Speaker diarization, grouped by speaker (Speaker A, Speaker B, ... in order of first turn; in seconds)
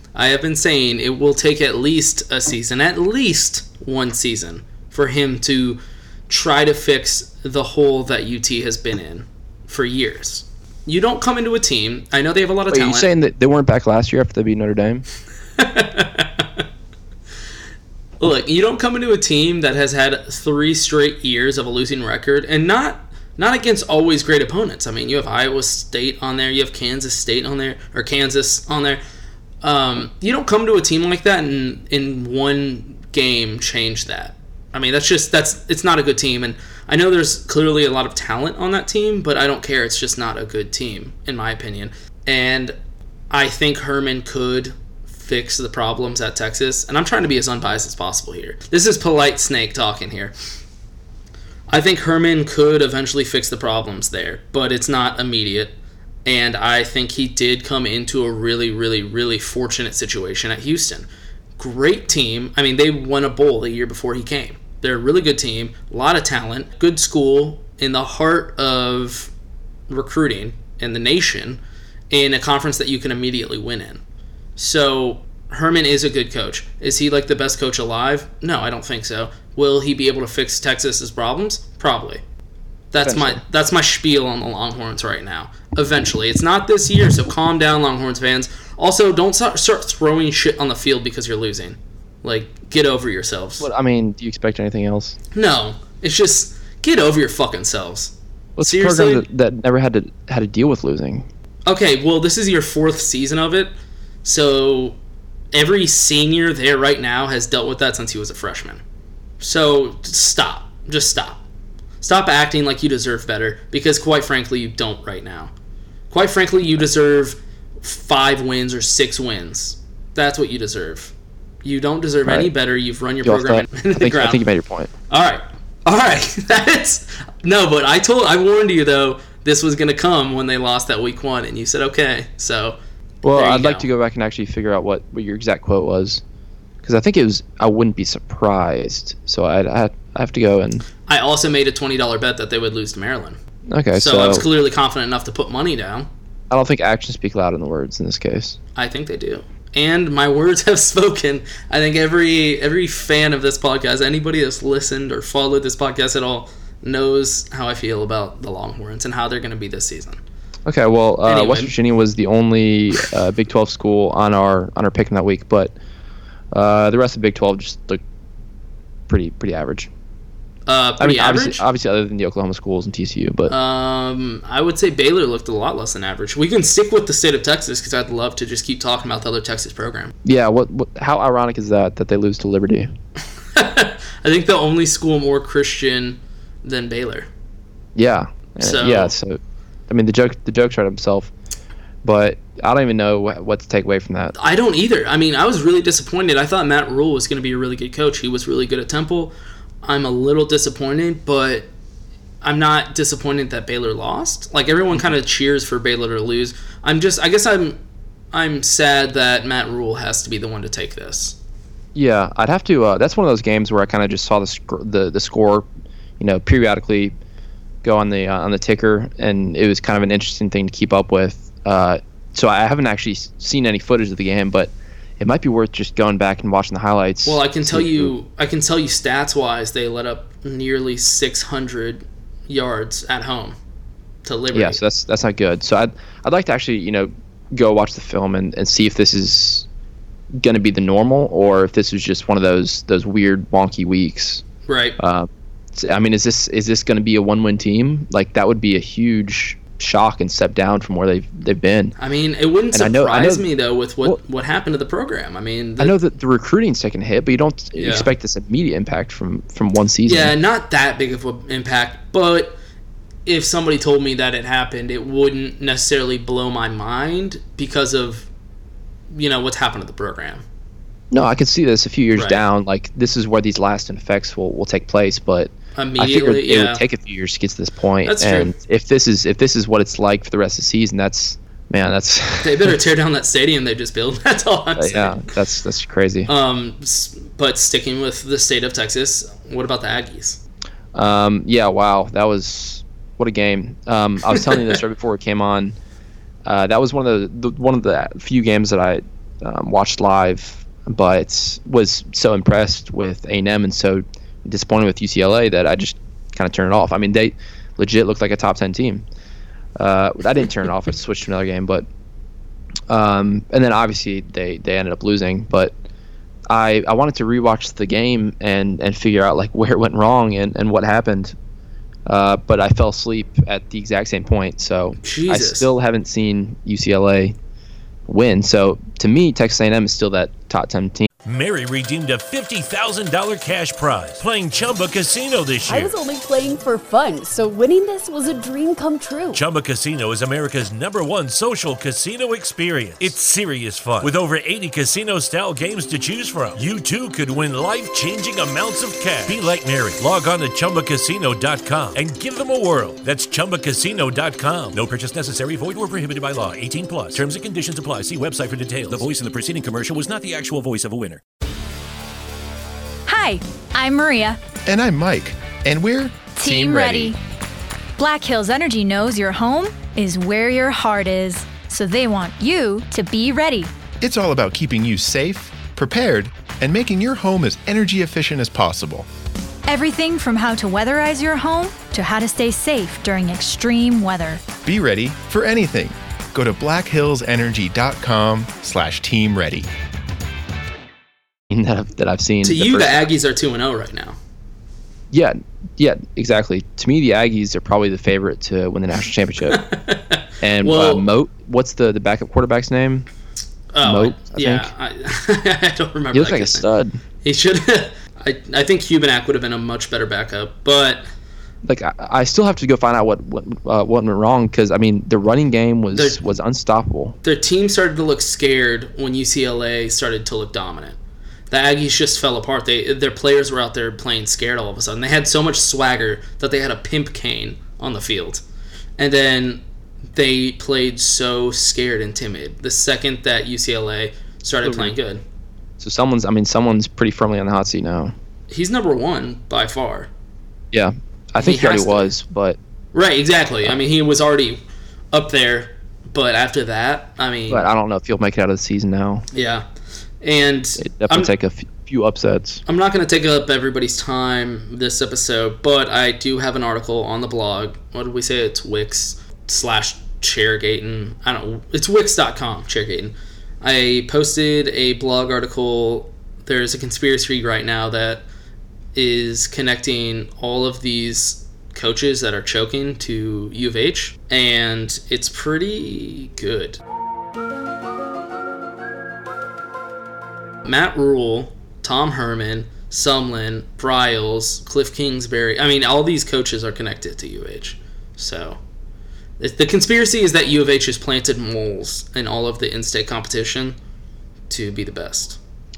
Speaker A: 0.1-13.1, 15.6-16.6, 18.2-29.0, 29.6-42.8, 43.3-50.3, 51.7-61.1, 61.6-69.3, 69.9-71.6, 72.1-74.0, 74.6-82.2, 82.9-93.7, 95.3-99.3, 101.7-103.7, 104.2-105.0, 105.5-108.8, 109.4-111.4, 112.0-115.5, 116.1-121.1, 121.6-124.4, 125.1-132.8, 133.3-133.9, 141.1-143.4, 143.9-146.1, 148.8-160.2, 161.2-161.7, 170.7-171.6, 173.5-180.1, 183.6-187.3, 188.6-189.1, 194.4-201.7, 202.4-207.8, 208.3-211.4, 227.2-233.6, 234.2-234.8, 244.7-245.0, 252.0-255.9, 257.8-258.1, 260.1-262.6, 263.3-268.3, 269.1-270.4, 272.1-272.4, 275.8-276.8, 278.1-278.6, 282.4-285.2, 286.3-290.4, 294.4-294.8, 325.0-325.7, 392.4-394.2, 399.5-401.1, 403.7-406.7, 407.2-411.1, 417.2-421.0, 421.5-428.4, 429.0-429.6, 430.1-435.2, 438.5-440.1, 441.4-442.1, 442.9-447.7, 449.3-449.7, 450.2-451.3, 452.7-468.2, 468.9-476.8, 480.6-488.6, 489.4-493.8, 494.5-495.4
Speaker B: 12.7-15.1, 83.0-83.4, 93.6-95.2, 98.6-101.3, 122.2-122.5, 123.2-124.9, 133.2-136.2, 136.8-140.8, 143.7-144.5, 146.5-148.6, 160.7-165.8, 166.5-168.0, 169.1-169.9, 171.0-173.5, 180.2-182.9, 187.9-191.3, 192.0-194.3, 211.9-215.7, 216.2-217.2, 217.8-228.1, 234.5-239.7, 240.3-244.4, 245.0-252.0, 252.7-253.5, 255.8-260.4, 271.1-282.8, 284.8-286.3, 290.9-295.8, 296.4-309.1, 309.8-311.9, 312.9-315.7, 316.5-321.4, 322.1-327.4, 328.1-331.1, 391.5-393.1, 395.1-399.6, 400.4-403.1, 403.8-404.7, 406.1-407.0, 411.6-417.2, 434.6-434.9, 435.8-438.1, 440.7-442.6, 447.5-449.2, 450.8-452.6
Speaker C: 331.2-336.0, 339.3-361.2
Speaker D: 335.7-339.4
Speaker E: 363.1-364.4, 366.4-367.2, 368.0-373.7, 379.7-384.4
Speaker F: 364.7-367.1, 374.0-379.1, 384.6-389.7